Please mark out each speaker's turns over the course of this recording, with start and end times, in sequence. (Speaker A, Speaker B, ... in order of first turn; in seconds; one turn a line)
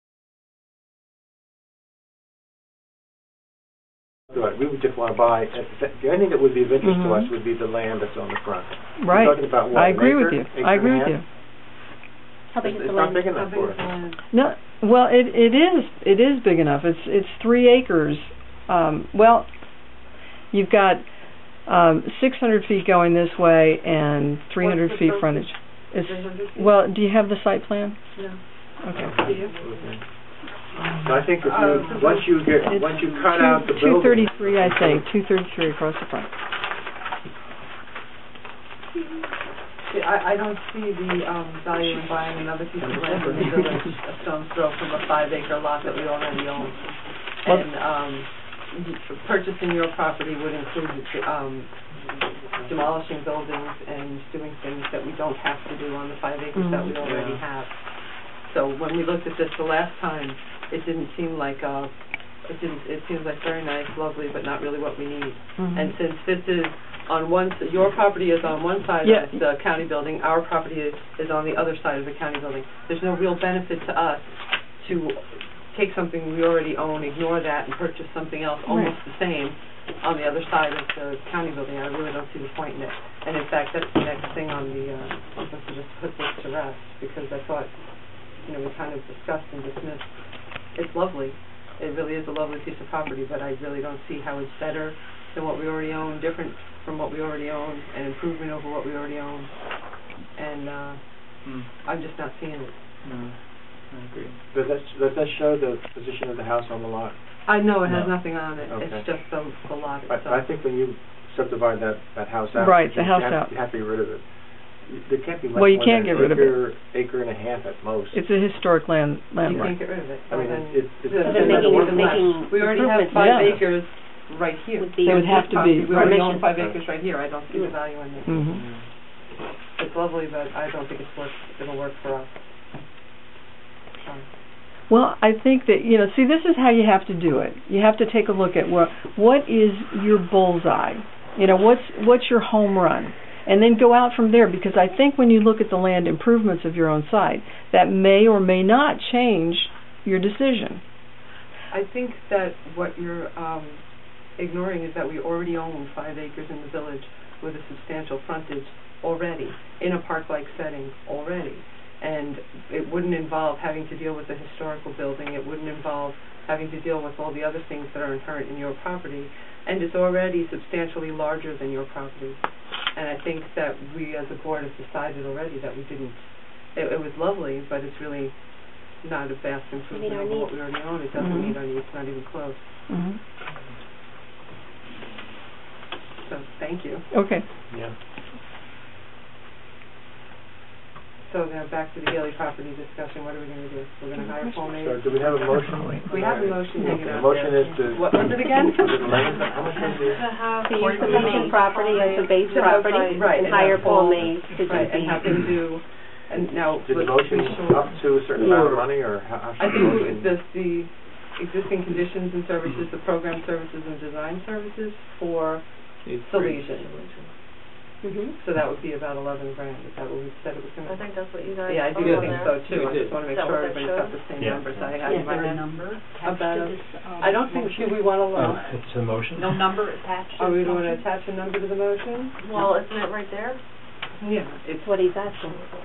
Speaker A: 4.3-11.2
Speaker B: 6.8-7.3
Speaker B: 9.0-11.2
Speaker C: 12.5-13.3
Speaker A: 12.6-13.8
Speaker D: 12.7-14.2
Speaker B: 14.3-19.5
Speaker B: 20.5-21.0
Speaker B: 21.6-28.0
Speaker E: 24.6-26.8
Speaker B: 28.8-29.1
Speaker A: 28.9-30.0
Speaker E: 29.2-29.5
Speaker A: 31.0-35.0
Speaker D: 31.4-32.3
Speaker E: 31.7-32.1
Speaker B: 32.6-36.3
Speaker D: 39.9-51.7
Speaker A: 43.0-43.5
Speaker A: 52.5-52.8
Speaker D: 52.6-57.7
Speaker B: 56.5-56.9
Speaker A: 57.0-57.4
Speaker D: 58.4-61.9
Speaker D: 62.5-87.7
Speaker B: 65.6-65.9
Speaker B: 69.0-69.4
Speaker B: 78.7-78.9
Speaker D: 88.3-90.2
Speaker D: 90.7-102.7
Speaker F: 101.4-101.7
Speaker F: 103.0-104.4
Speaker A: 104.5-107.2
Speaker D: 107.5-110.5
Speaker A: 108.5-109.0
Speaker A: 110.1-114.2
Speaker B: 112.6-113.5
Speaker A: 114.8-118.2
Speaker B: 115.5-116.6
Speaker B: 118.1-119.7
Speaker D: 119.4-128.4
Speaker A: 119.5-122.3
Speaker C: 121.2-123.6
Speaker B: 122.8-123.6
Speaker C: 124.8-126.5
Speaker B: 125.0-126.2
Speaker B: 128.2-128.6
Speaker D: 129.8-132.4
Speaker B: 134.9-150.8
Speaker D: 151.7-153.8
Speaker D: 154.4-172.4
Speaker D: 172.9-178.3
Speaker D: 179.0-182.7
Speaker C: 179.9-180.5
Speaker B: 181.2-181.6
Speaker B: 182.9-183.2
Speaker D: 186.2-187.0
Speaker B: 187.1-187.4
Speaker D: 191.2-199.7
Speaker A: 194.7-200.3
Speaker F: 195.6-196.1
Speaker E: 199.7-203.6
Speaker C: 200.6-205.4
Speaker D: 201.0-201.5
Speaker D: 202.5-208.1
Speaker A: 206.8-210.3
Speaker C: 208.4-208.7
Speaker F: 208.4-208.9
Speaker D: 209.6-217.1
Speaker F: 216.0-217.3
Speaker C: 218.0-218.3
Speaker D: 218.3-228.7
Speaker E: 220.8-228.1
Speaker F: 222.0-223.2
Speaker C: 225.0-225.3
Speaker F: 228.3-229.6
Speaker E: 229.3-231.0
Speaker D: 230.3-232.7
Speaker E: 232.4-233.6
Speaker D: 234.2-235.6
Speaker C: 234.8-235.6